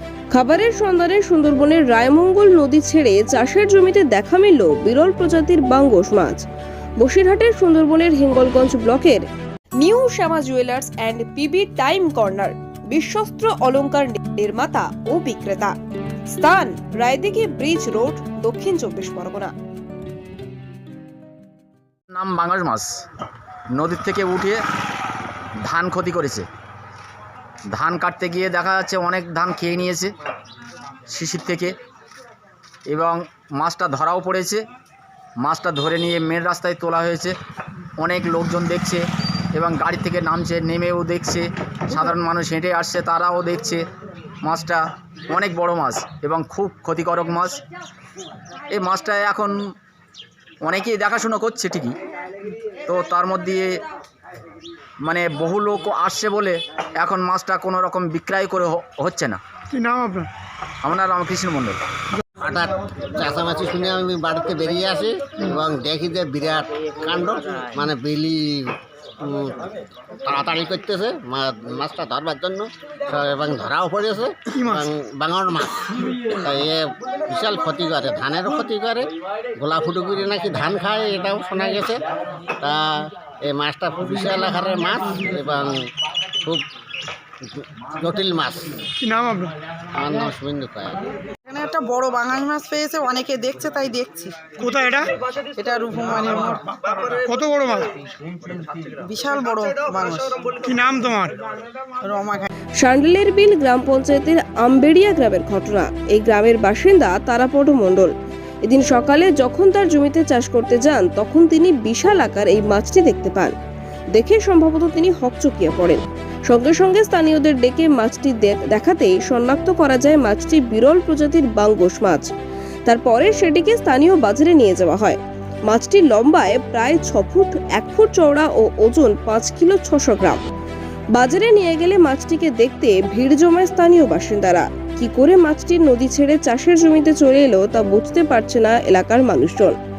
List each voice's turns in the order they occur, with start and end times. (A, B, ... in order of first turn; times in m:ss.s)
0:00.3-0:06.4 A
0:07.0-0:09.3 A
0:09.8-0:15.8 A
0:16.3-0:19.5 A
0:22.1-0:23.0 B
0:23.8-0:24.6 B
0:25.7-0:26.5 B
0:27.7-0:30.1 B
0:31.1-0:31.8 B
0:32.9-0:34.6 B
0:35.4-0:37.4 B
0:38.0-0:43.8 B
0:44.4-0:47.6 B
0:48.7-0:49.6 B
0:50.6-0:52.0 B
0:52.8-0:53.8 B
0:55.1-0:59.4 B
0:59.7-1:00.3 C
1:00.8-1:01.8 B
1:02.4-1:22.0 D
1:14.5-1:14.8 C
1:22.6-1:25.8 D
1:27.4-1:28.9 D
1:29.0-1:29.5 C
1:29.9-1:31.0 D
1:31.4-1:34.5 E
1:34.6-1:35.1 C
1:35.5-1:37.2 E
1:37.2-1:37.9 C
1:39.0-1:40.6 E
1:40.6-1:41.4 C
1:42.0-1:42.5 E
1:42.8-1:48.1 A
1:48.6-1:53.6 A
1:54.1-2:02.3 A
2:02.9-2:10.5 A
2:11.1-2:19.8 A